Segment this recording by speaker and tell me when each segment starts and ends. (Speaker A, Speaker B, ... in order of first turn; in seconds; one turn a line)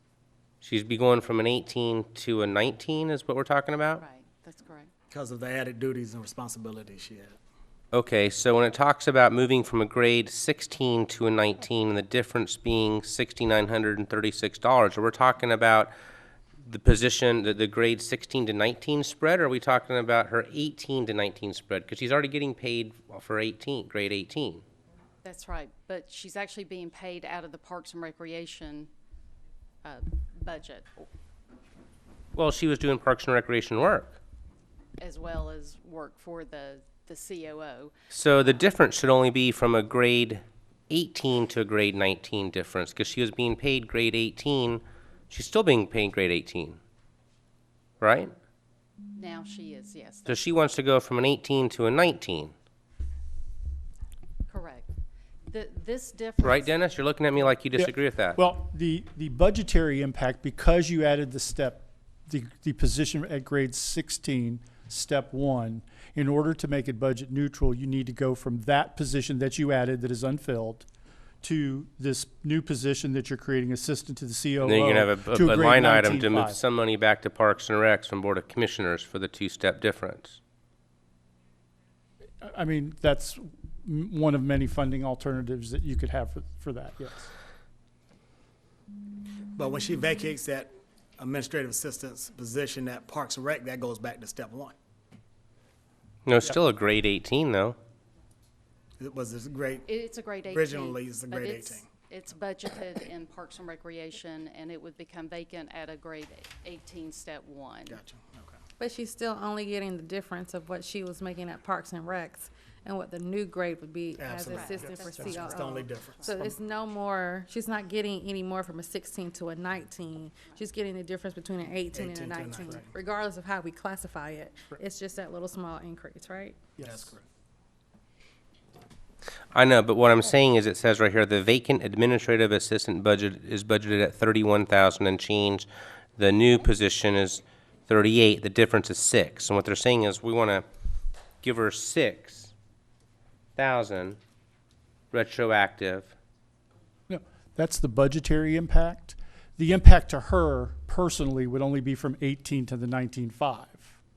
Speaker A: 0.6-4.0
Speaker B: 4.0-4.9
Speaker C: 5.1-7.4
Speaker A: 7.9-15.9
Speaker A: 16.6-24.6
Speaker B: 25.2-28.9
Speaker B: 29.8-30.9
Speaker A: 32.4-34.2
Speaker B: 35.0-37.9
Speaker A: 38.1-46.8
Speaker A: 48.0-48.3
Speaker B: 49.2-50.6
Speaker A: 50.3-52.5
Speaker B: 54.5-54.9
Speaker B: 55.5-56.8
Speaker A: 56.4-58.4
Speaker D: 57.7-70.9
Speaker D: 71.4-76.6
Speaker A: 74.6-80.4
Speaker D: 82.4-87.3
Speaker C: 89.5-94.8
Speaker A: 96.3-97.8
Speaker C: 99.0-99.9
Speaker B: 99.9-108.0
Speaker C: 100.5-101.9
Speaker C: 107.9-108.6
Speaker E: 108.8-126.7
Speaker C: 114.2-116.6
Speaker B: 114.5-116.4
Speaker B: 120.3-120.6
Speaker C: 121.9-122.9
Speaker D: 126.8-127.1
Speaker C: 126.8-127.2
Speaker A: 129.5-135.7
Speaker A: 136.2-140.7
Speaker A: 141.4-142.5
Speaker A: 143.6-144.2
Speaker A: 145.1-146.2
Speaker D: 147.1-154.0